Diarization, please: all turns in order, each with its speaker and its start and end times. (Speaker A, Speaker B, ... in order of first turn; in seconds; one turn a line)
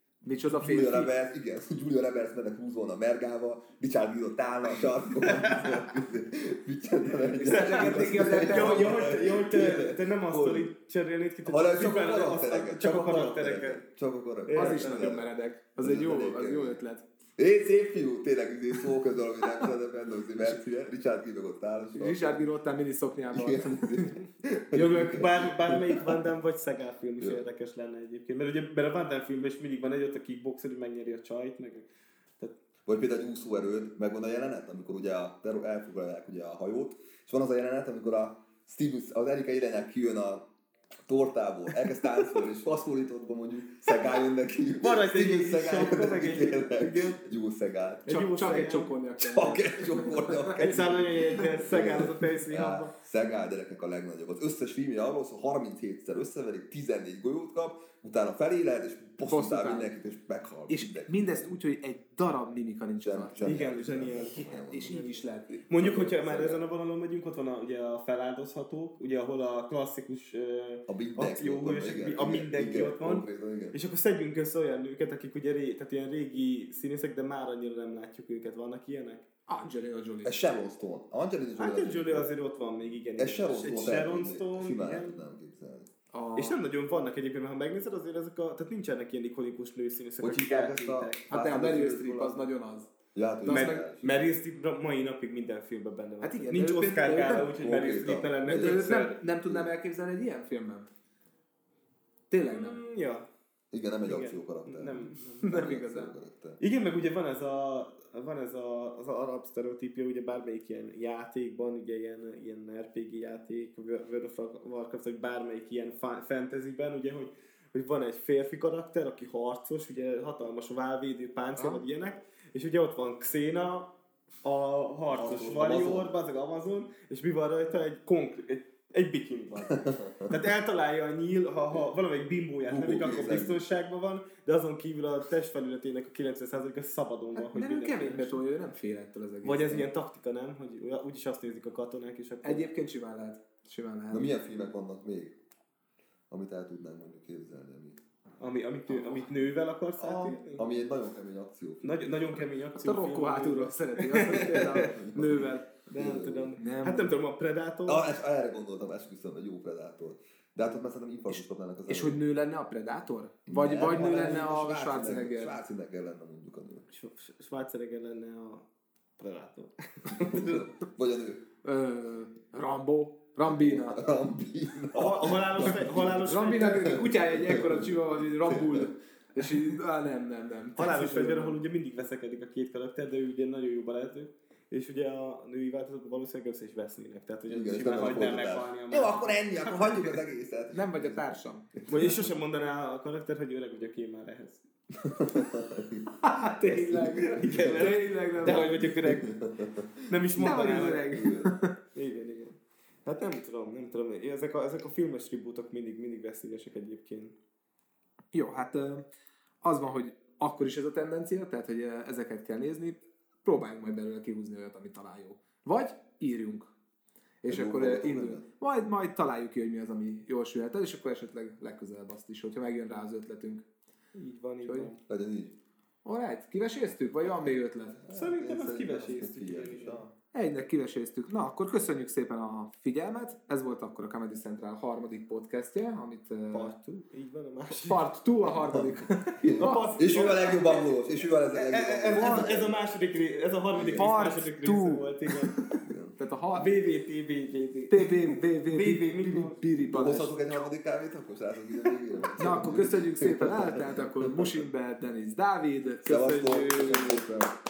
Speaker A: 0.2-1.1
Speaker B: 0.5-10.7
Speaker C: 5.2-5.8
Speaker A: 7.2-9.1
Speaker C: 7.5-13.8
Speaker B: 11.5-15.3
Speaker C: 14.5-15.2
Speaker A: 14.5-17.1
Speaker B: 15.8-16.8
Speaker B: 17.4-22.4
Speaker A: 21.9-25.3
Speaker B: 23.3-26.1
Speaker C: 24.8-31.9
Speaker B: 32.9-40.5
Speaker B: 41.1-61.4
Speaker C: 44.8-47.2
Speaker C: 48.1-48.9
Speaker A: 48.1-51.6
Speaker C: 50.6-52.8
Speaker A: 52.4-52.9
Speaker A: 59.3-59.9
Speaker A: 60.7-63.4
Speaker B: 63.0-64.9
Speaker C: 63.4-79.2
Speaker A: 64.2-65.7
Speaker B: 65.8-66.6
Speaker B: 70.9-73.8
Speaker A: 79.5-80.4
Speaker B: 80.2-82.3
Speaker C: 81.6-85.2
Speaker B: 83.2-85.9
Speaker A: 86.1-86.6
Speaker C: 86.4-91.3
Speaker B: 90.2-92.4
Speaker A: 91.3-92.9
Speaker B: 93.1-94.1
Speaker A: 93.4-93.8
Speaker C: 93.5-99.2
Speaker A: 96.2-97.5
Speaker B: 97.5-99.7
Speaker A: 98.5-100.9
Speaker A: 102.3-102.8
Speaker C: 102.5-103.3
Speaker B: 103.7-106.6
Speaker C: 104.0-105.5
Speaker A: 105.4-106.1
Speaker C: 106.6-138.4
Speaker A: 121.6-121.8
Speaker B: 125.1-126.1
Speaker B: 129.7-130.3
Speaker B: 132.7-133.6
Speaker A: 137.4-139.9
Speaker C: 139.4-142.7
Speaker A: 142.4-144.3
Speaker B: 144.1-145.4
Speaker B: 146.3-148.0
Speaker C: 148.4-150.6
Speaker A: 148.9-149.3
Speaker B: 150.0-152.0
Speaker C: 151.8-154.9
Speaker A: 152.8-155.7
Speaker B: 154.2-156.5
Speaker C: 155.9-158.1
Speaker A: 156.6-157.1
Speaker B: 157.9-162.2
Speaker A: 161.9-165.6
Speaker B: 163.5-166.9
Speaker C: 166.9-168.7
Speaker C: 169.2-170.7
Speaker B: 170.1-171.4
Speaker A: 171.6-174.0
Speaker B: 173.5-178.9
Speaker C: 174.9-177.1
Speaker A: 176.2-181.6
Speaker C: 180.8-189.4
Speaker B: 187.5-191.3
Speaker A: 189.7-190.0
Speaker A: 190.7-192.1
Speaker C: 191.9-194.7
Speaker B: 195.1-196.1
Speaker A: 196.2-198.8
Speaker C: 196.7-199.3
Speaker B: 196.7-201.5
Speaker C: 200.1-201.1
Speaker A: 200.4-201.8
Speaker C: 201.9-207.3
Speaker A: 208.3-209.1
Speaker A: 209.6-216.7
Speaker A: 217.4-223.6
Speaker B: 217.5-218.4
Speaker C: 224.1-225.0
Speaker A: 224.6-224.9
Speaker B: 225.1-225.6
Speaker A: 226.1-228.0
Speaker B: 227.5-230.1
Speaker C: 228.1-230.0
Speaker A: 230.3-236.7
Speaker C: 236.5-238.1
Speaker A: 237.7-240.1
Speaker B: 238.5-242.8
Speaker C: 239.6-240.9
Speaker C: 241.5-245.6
Speaker A: 242.1-242.5
Speaker B: 243.8-244.1
Speaker A: 243.8-246.7
Speaker B: 245.8-246.6
Speaker C: 246.6-249.6
Speaker A: 247.9-250.3
Speaker B: 249.9-254.5
Speaker A: 252.4-257.3
Speaker B: 256.1-257.5